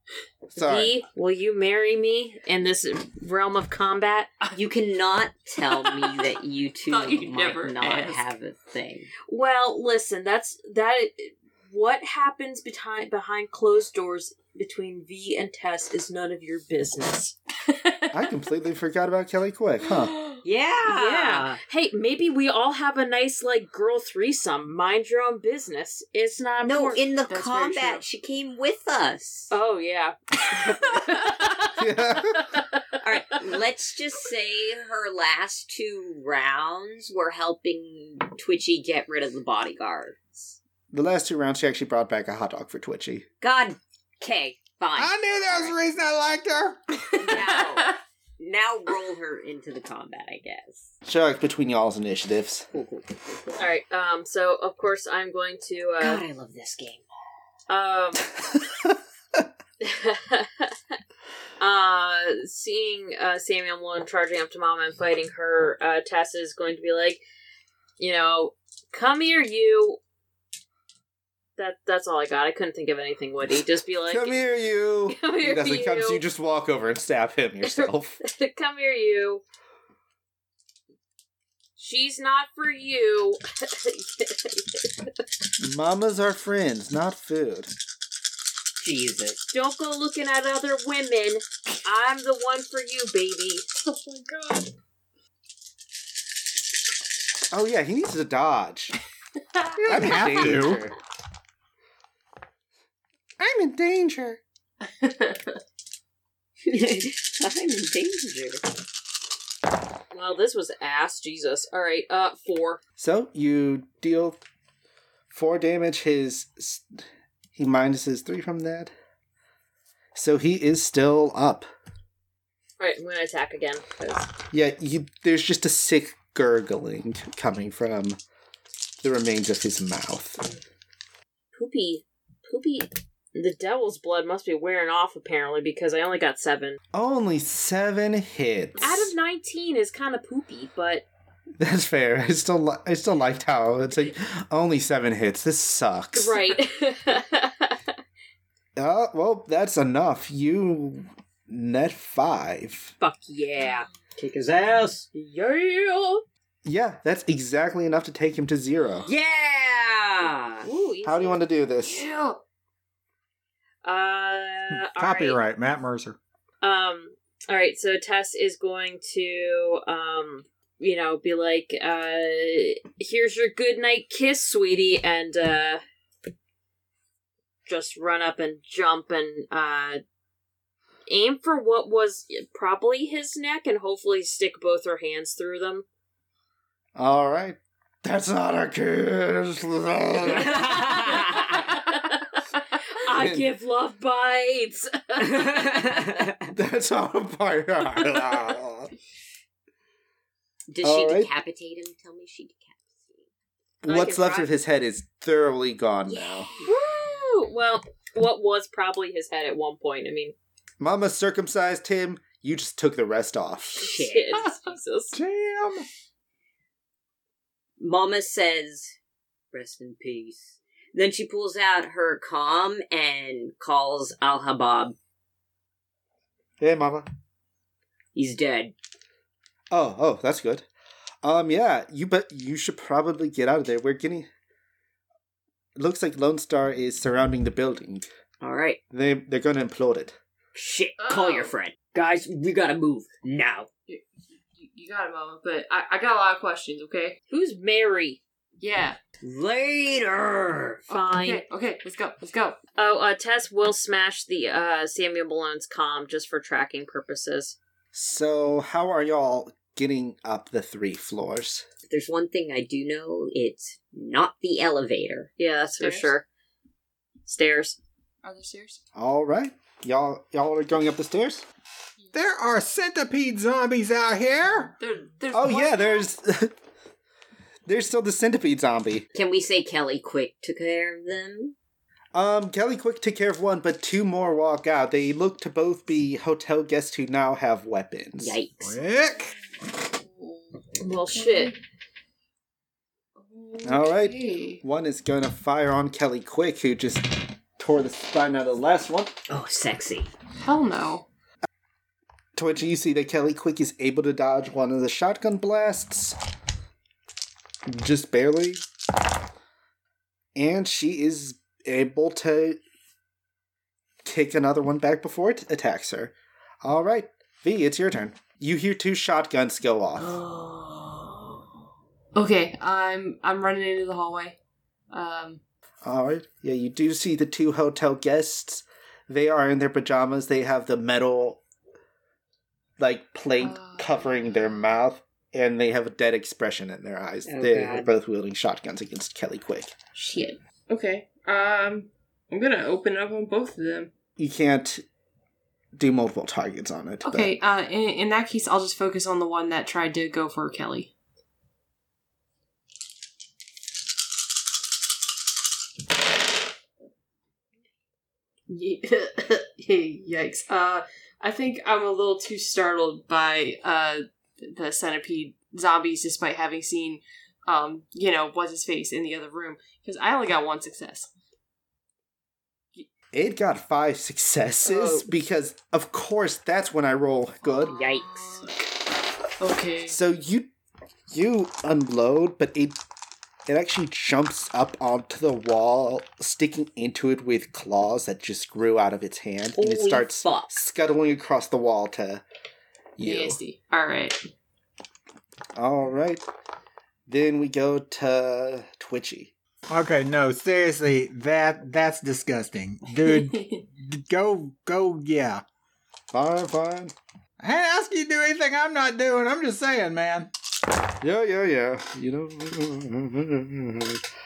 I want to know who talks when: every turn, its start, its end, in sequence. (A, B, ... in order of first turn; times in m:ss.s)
0:00.6-0:00.9 A
0:00.6-0:04.3 B
0:04.6-0:09.1 C
0:05.7-0:06.2 D
0:06.9-0:08.2 D
0:09.3-0:17.4 B
0:17.7-0:18.1 D
0:18.1-0:20.1 A
0:19.9-0:20.4 D
0:20.4-0:21.6 C
0:20.9-0:27.0 B
0:26.6-0:29.5 C
0:27.3-0:28.0 D
0:29.5-0:33.4 B
0:31.8-0:32.5 A
0:33.0-0:40.6 C
0:40.9-0:43.3 A
0:43.4-0:45.8 C
0:45.0-0:46.8 E
0:47.2-0:51.0 C
0:47.3-0:48.0 D
0:51.0-0:52.7 A
0:52.7-0:53.6 C
0:53.6-0:56.2 B
0:56.0-0:57.0 C
0:57.7-0:58.3 B
0:59.8-1:00.7 B
1:01.6-1:07.2 B
1:08.0-1:10.0 B
1:11.6-1:14.4 B
1:14.1-1:18.2 A
1:15.1-1:16.2 B
1:17.6-1:19.4 B
1:21.8-1:25.1 B
1:25.6-1:27.7 A
1:28.8-1:29.4 C
1:29.5-1:33.7 B
1:33.9-1:34.7 D
1:37.5-1:39.0 A
1:39.8-1:40.8 E
1:39.8-1:41.0 A
1:43.4-1:44.4 A
1:44.8-1:45.6 D
1:46.6-1:48.6 C
1:50.1-1:52.8 B
1:53.0-1:54.4 A
1:55.3-1:57.0 A
1:57.6-1:58.9 A
2:00.2-2:01.7 A
2:02.8-2:04.3 B
2:04.5-2:08.2 A
2:09.0-2:10.4 A
2:11.6-2:16.8 B
2:16.9-2:19.1 A
2:18.8-2:21.0 B
2:18.8-2:19.1 D
2:21.6-2:26.4 A
2:26.1-2:27.8 B
2:28.8-2:32.9 A
2:33.0-2:33.8 B
2:34.2-2:35.2 C
2:35.2-2:36.2 B
2:36.6-2:39.1 A
2:39.1-2:40.7 C
2:40.6-2:41.4 B
2:41.0-2:42.0 A
2:41.8-2:42.4 D
2:43.8-2:45.4 B
2:44.7-2:46.2 E
2:46.6-2:55.8 B
2:57.7-3:00.0 B
3:01.1-3:05.9 B
3:07.0-3:10.9 A
3:10.3-3:11.7 C
3:10.9-3:16.0 B
3:13.1-3:13.5 A
3:15.2-3:16.5 C
3:16.5-3:18.9 A
3:20.7-3:23.2 C
3:20.8-3:21.3 A
3:23.8-3:26.5 A
3:23.9-3:24.5 B
3:26.1-3:26.9 C
3:26.6-3:30.4 B
3:30.8-3:34.0 A
3:33.8-3:34.5 C
3:33.8-3:35.2 B
3:35.1-3:35.9 E
3:37.8-3:39.0 C
3:39.5-3:45.0 C
3:46.6-3:47.1 A
3:48.2-3:48.7 C
3:49.7-3:50.7 A
3:51.2-3:54.3 A
3:55.8-3:58.1 A
3:58.4-3:58.8 C
3:58.9-4:00.2 A
4:00.6-4:03.7 C
4:01.0-4:01.5 D
4:04.6-4:07.2 D
4:07.3-4:08.2 B
4:08.6-4:09.0 D
4:09.2-4:10.8 C
4:10.9-4:11.4 B
4:10.9-4:12.6 D
4:12.8-4:17.6 B
4:17.9-4:21.7 A
4:21.9-4:25.3 C
4:25.4-4:26.2 B
4:25.8-4:26.1 D
4:27.3-4:27.8 B
4:28.2-4:28.8 D
4:29.0-4:31.4 A
4:32.1-4:34.8 E
4:34.8-4:36.1 D
4:35.3-4:36.5 A
4:37.7-4:39.1 A
4:39.1-4:41.6 C
4:42.1-4:48.4 A
4:48.2-4:48.8 C
4:48.6-4:49.3 E
4:49.3-4:51.6 D
4:50.8-4:51.6 B
4:53.2-4:54.6 D
4:53.6-4:59.2 A
4:59.3-5:00.1 C
5:00.4-5:01.1 D
5:02.4-5:06.2 A
5:07.7-5:08.6 A
5:10.4-5:12.6 A
5:14.0-5:20.2 A
5:20.0-5:21.4 D
5:22.2-5:24.4 D
5:24.9-5:25.4 D
5:25.8-5:31.4 A
5:32.8-5:39.8 A
5:33.4-5:34.5 D
5:37.3-5:37.9 C
5:40.0-5:43.9 D
5:44.2-5:44.8 A
5:45.8-5:47.4 A
5:47.0-5:50.9 D
5:58.5-6:11.1 D
6:13.1-6:17.8 A
6:14.7-6:15.0 B
6:17.5-6:18.6 D
6:17.7-6:18.4 C
6:19.4-6:20.0 D
6:19.9-6:20.5 A
6:21.1-6:22.8 A
6:23.5-6:32.2 A
6:29.6-6:30.5 C
6:33.0-6:33.4 A
6:33.0-6:34.2 D
6:35.6-6:36.2 A
6:37.1-6:39.3 A
6:39.7-6:45.4 E
6:43.0-6:43.6 D
6:46.1-6:47.0 A
6:47.4-6:50.3 E
6:51.0-6:54.0 A